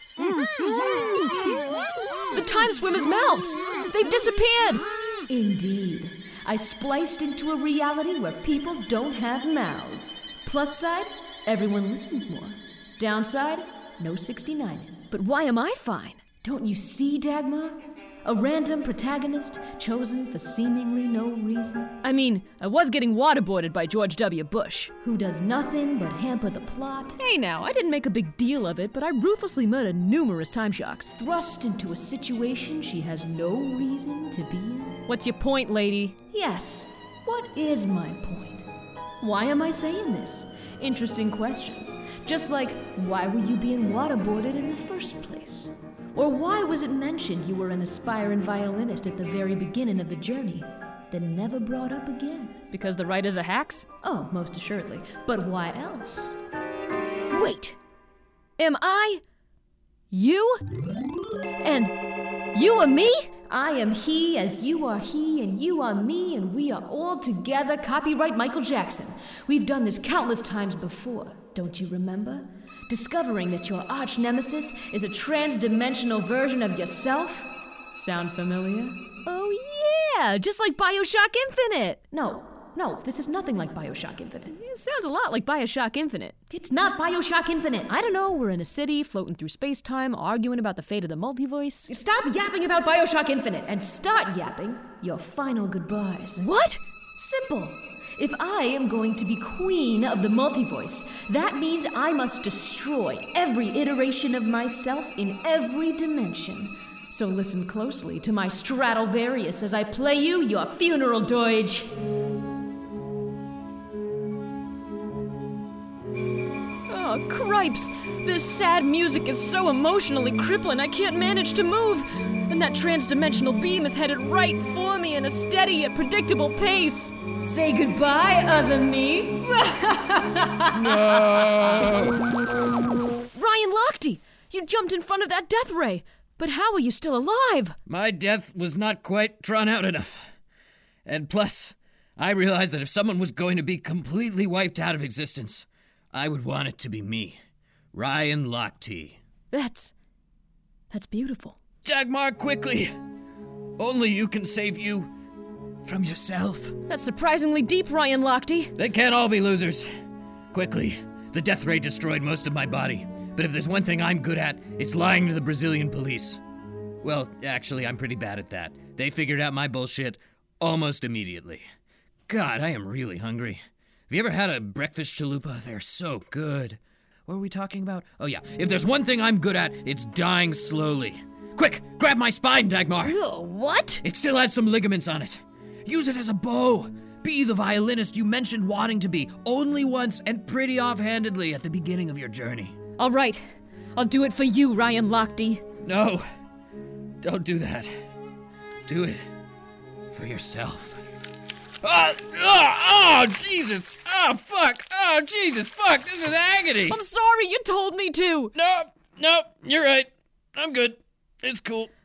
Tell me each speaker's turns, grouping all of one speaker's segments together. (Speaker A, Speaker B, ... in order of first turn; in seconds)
Speaker A: 0.6-1.5, 2.3-38.6, 39.2-56.4, 57.3-57.8, 58.6-59.2, 60.1-60.6, 61.6-62.0, 62.5-111.9, 116.9-130.9, 133.3-137.8, 149.5-149.9, 150.9-151.6, 156.9-158.7, 183.0-184.0, 193.0-193.4, 193.9-195.6, 206.9-208.5
Speaker B: 130.7-132.1, 137.9-140.2, 141.1-147.4, 147.9-149.2, 151.8-152.9, 153.8-155.1, 155.8-156.7, 158.8-159.9, 160.5-166.4, 167.0-171.6, 172.3-183.2, 184.0-192.7, 195.8-196.2, 197.2-197.9, 198.9-199.2, 200.1-201.0, 201.8-207.0, 208.5-211.9